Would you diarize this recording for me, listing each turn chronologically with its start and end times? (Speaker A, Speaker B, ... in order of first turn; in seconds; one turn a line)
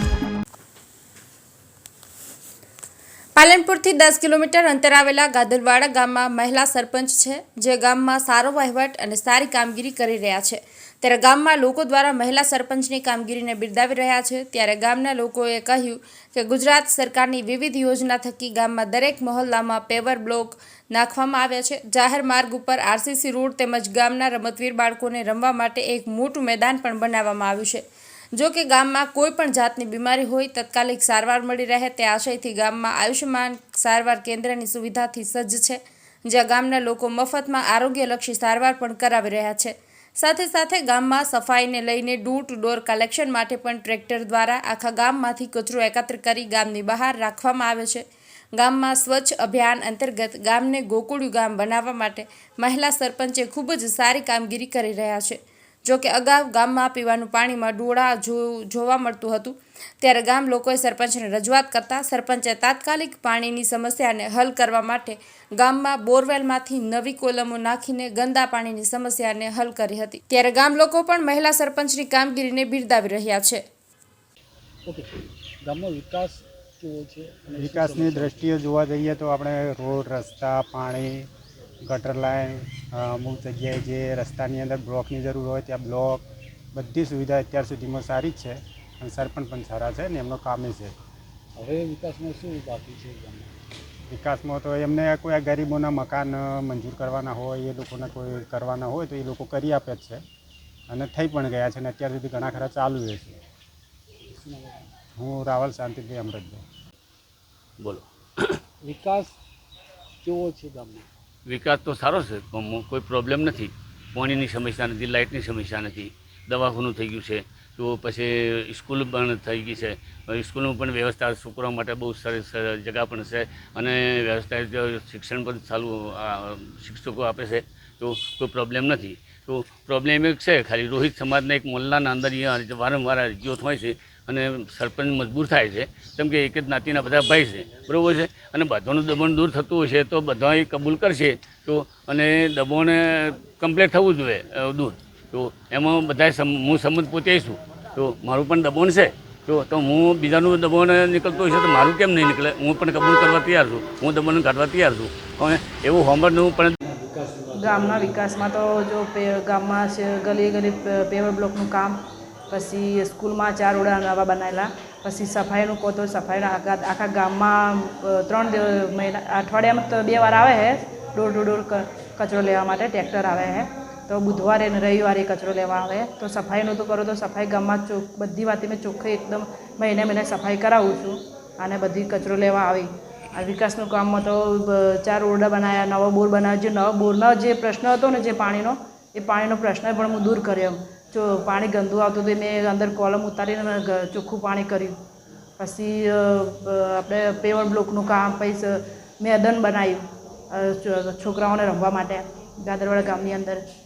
Speaker A: 3.4-48.0
Speaker A: 48.6-73.6
Speaker B: 74.9-78.6
Speaker C: 77.6-81.3
Speaker C: 81.8-91.0
Speaker B: 91.6-93.5
Speaker C: 94.1-100.2
Speaker C: 100.9-103.4
Speaker B: 104.3-104.9
Speaker C: 105.2-106.6
Speaker D: 107.8-108.6
Speaker B: 108.8-109.4
Speaker B: 110.2-111.1
Speaker D: 111.5-156.8
Speaker B: 156.8-158.4
Speaker E: 157.6-195.0
Speaker E: 195.6-203.7